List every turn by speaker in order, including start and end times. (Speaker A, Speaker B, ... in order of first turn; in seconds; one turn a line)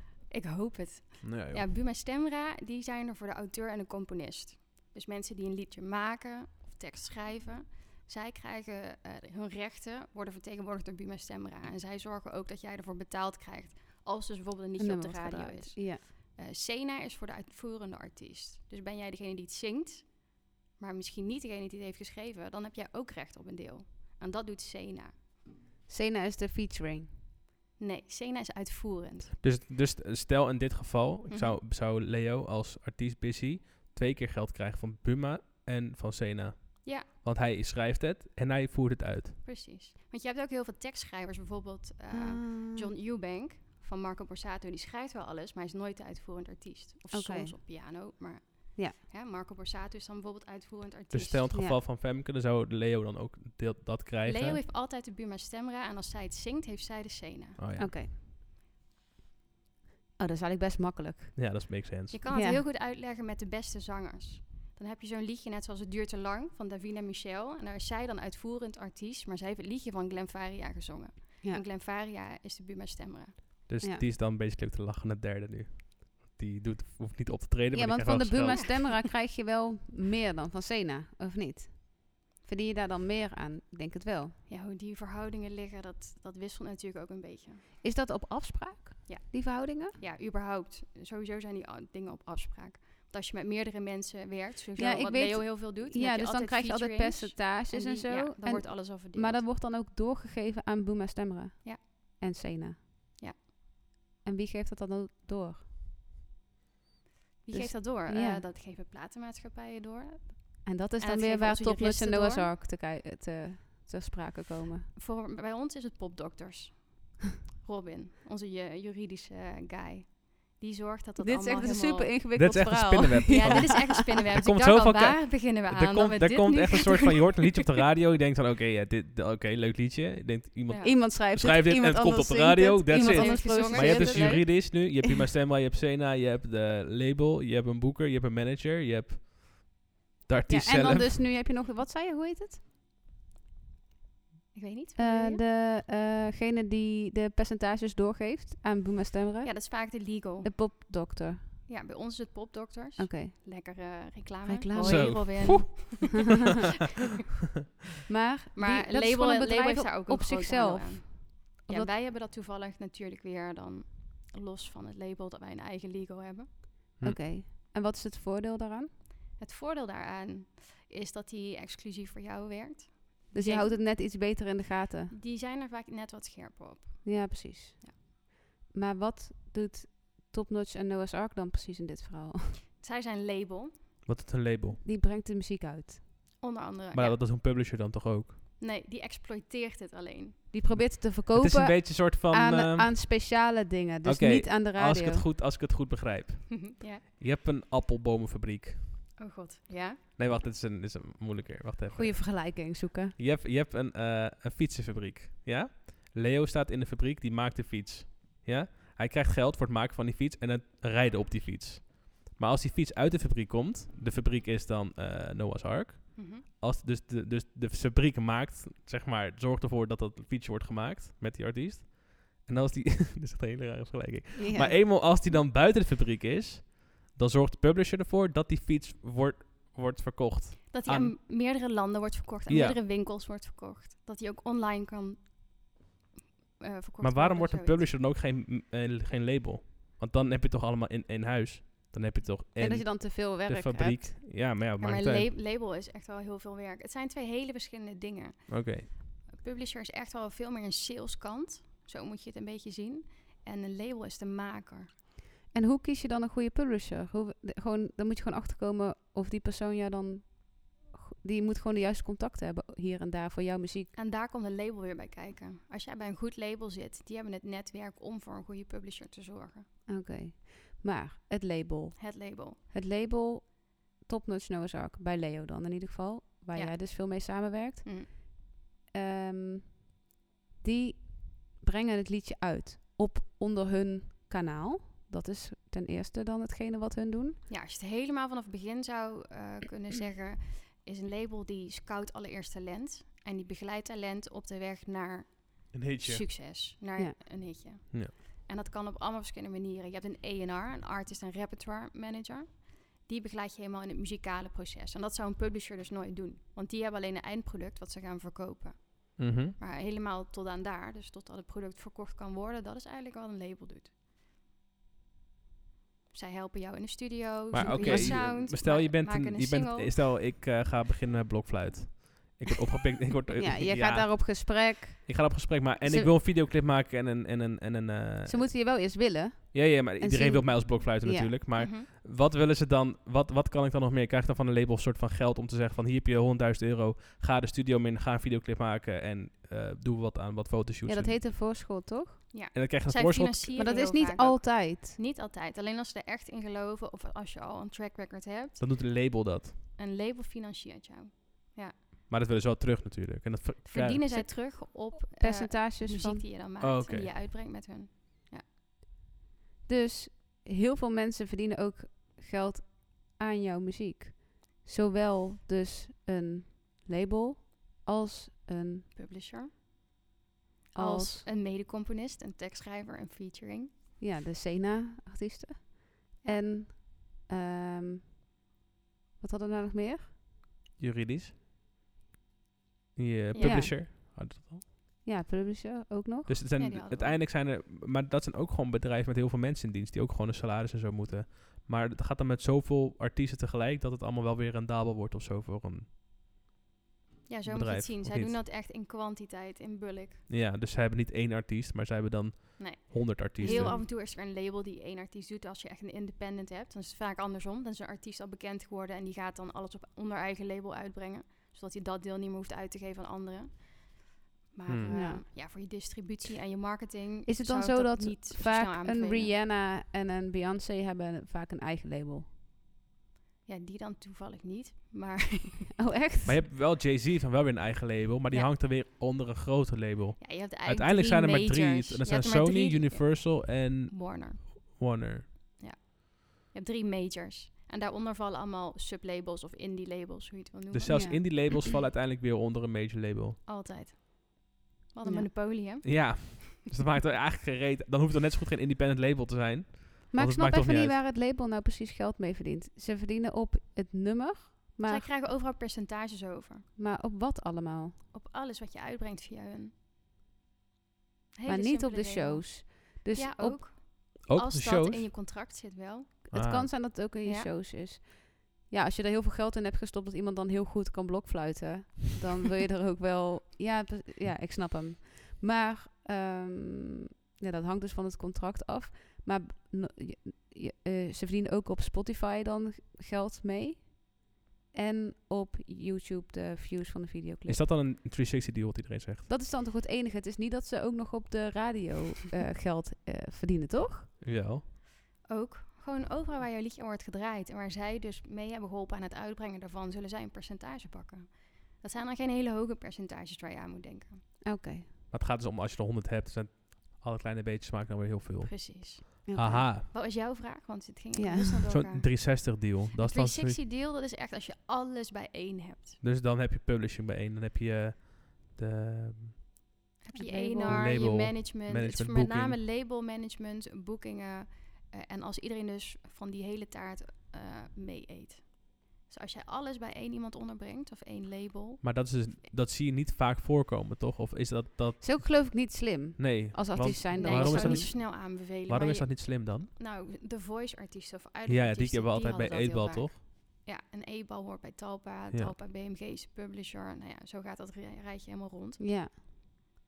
Speaker A: 0.3-25.2
Speaker B: 1.2-1.6
Speaker C: 14.8-16.0
Speaker C: 25.9-27.1
Speaker A: 27.8-29.3
Speaker B: 29.4-39.4
Speaker A: 31.3-31.6
Speaker A: 39.4-51.5
Speaker C: 42.1-42.9
Speaker C: 47.1-47.6
Speaker B: 51.1-54.6
Speaker C: 51.5-51.8
Speaker A: 54.2-57.6
Speaker B: 57.6-57.9
Speaker C: 57.8-58.1
Speaker C: 60.2-61.7
Speaker B: 61.3-62.2
Speaker A: 62.1-73.4
Speaker C: 62.3-62.6
Speaker B: 73.7-78.7
Speaker C: 77.7-84.4
Speaker A: 78.5-79.0
Speaker A: 84.5-87.6
Speaker C: 87.8-90.0
Speaker A: 89.1-99.4
Speaker C: 94.8-102.8
Speaker C: 104.2-105.6
Speaker A: 107.4-112.5
Speaker C: 107.5-108.4
Speaker C: 110.6-114.9
Speaker A: 114.9-122.2
Speaker C: 121.2-124.0
Speaker B: 122.3-141.2
Speaker A: 123.3-127.3
Speaker A: 130.7-131.0
Speaker C: 130.8-135.1
Speaker A: 132.9-134.5
Speaker C: 140.5-142.6
Speaker A: 144.5-145.4
Speaker C: 145.0-151.4
Speaker A: 149.4-150.5
Speaker A: 151.7-156.6
Speaker C: 153.0-153.3
Speaker C: 154.4-155.7
Speaker B: 154.8-156.3
Speaker C: 158.1-161.9
Speaker A: 158.5-166.5
Speaker C: 167.0-168.9
Speaker A: 169.4-173.8
Speaker C: 173.3-175.1
Speaker A: 175.1-177.9
Speaker C: 177.0-178.1
Speaker C: 178.7-182.6
Speaker A: 182.8-183.8
Speaker B: 184.0-184.8
Speaker C: 184.8-186.0
Speaker A: 186.4-187.2
Speaker B: 186.9-188.3
Speaker A: 188.6-190.4
Speaker C: 190.5-195.2
Speaker B: 190.7-193.1
Speaker B: 194.0-199.1
Speaker A: 196.5-197.0
Speaker A: 199.2-200.0
Speaker B: 200.2-231.2
Speaker C: 201.9-203.1
Speaker A: 216.2-216.4
Speaker C: 224.3-224.8
Speaker A: 230.7-235.8
Speaker B: 232.5-232.8
Speaker A: 236.6-237.9
Speaker B: 237.0-245.3
Speaker C: 242.6-244.1
Speaker A: 244.8-254.9
Speaker B: 248.5-248.9
Speaker C: 255.5-263.9
Speaker A: 263.9-269.7
Speaker C: 269.9-278.4
Speaker A: 272.0-272.6
Speaker A: 276.5-278.1
Speaker C: 278.9-280.0
Speaker C: 280.6-287.4
Speaker A: 287.5-313.9
Speaker B: 295.7-296.2
Speaker B: 309.2-309.6
Speaker A: 316.1-319.9
Speaker B: 317.5-328.5
Speaker C: 317.6-318.2
Speaker C: 323.4-326.1
Speaker C: 328.2-331.4
Speaker B: 329.5-341.2
Speaker A: 331.6-331.9
Speaker C: 340.9-342.3
Speaker A: 342.3-348.6
Speaker B: 342.5-343.6
Speaker C: 343.6-345.0
Speaker B: 348.6-349.6
Speaker A: 349.8-351.8
Speaker B: 352.1-354.1
Speaker A: 353.6-358.4
Speaker C: 354.1-356.3
Speaker B: 356.6-357.1
Speaker C: 359.6-368.9
Speaker A: 368.9-369.5
Speaker A: 370.7-373.7
Speaker C: 370.7-371.2
Speaker C: 374.0-378.1
Speaker C: 379.2-380.1
Speaker B: 380.8-381.3
Speaker B: 382.9-384.7
Speaker A: 383.3-383.8
Speaker C: 383.4-383.8
Speaker C: 385.0-386.4
Speaker B: 386.3-395.9
Speaker A: 386.6-387.2
Speaker A: 397.3-400.2
Speaker B: 397.4-398.4
Speaker B: 400.3-403.8
Speaker A: 402.6-419.3
Speaker C: 403.4-403.8
Speaker B: 414.7-414.9
Speaker C: 414.9-415.2
Speaker C: 417.2-422.3
Speaker A: 423.4-425.8
Speaker C: 425.8-426.4
Speaker B: 426.2-435.3
Speaker A: 430.2-434.8
Speaker A: 435.6-441.4
Speaker B: 440.7-443.4
Speaker C: 440.9-441.3
Speaker A: 443.4-446.3
Speaker C: 445.0-445.3
Speaker B: 445.8-450.9
Speaker C: 450.1-455.1
Speaker A: 454.9-456.7
Speaker C: 456.8-458.0
Speaker A: 458.1-459.7
Speaker A: 461.4-466.2
Speaker C: 461.4-463.6
Speaker B: 464.2-465.1
Speaker C: 466.3-487.6
Speaker B: 466.3-466.7
Speaker A: 467.2-467.5
Speaker B: 487.4-489.3
Speaker C: 489.3-494.1
Speaker B: 494.2-494.6
Speaker A: 495.2-504.2
Speaker C: 504.4-504.9
Speaker B: 505.1-509.8
Speaker A: 508.4-516.0
Speaker C: 509.2-509.7
Speaker C: 511.1-511.6
Speaker B: 511.7-513.6
Speaker B: 516.0-519.4
Speaker A: 520.0-532.0
Speaker C: 520.1-520.9
Speaker B: 520.6-522.6
Speaker B: 531.8-535.6
Speaker C: 535.0-537.9
Speaker B: 536.2-539.7
Speaker A: 537.1-548.8
Speaker B: 541.5-543.2
Speaker C: 548.8-549.1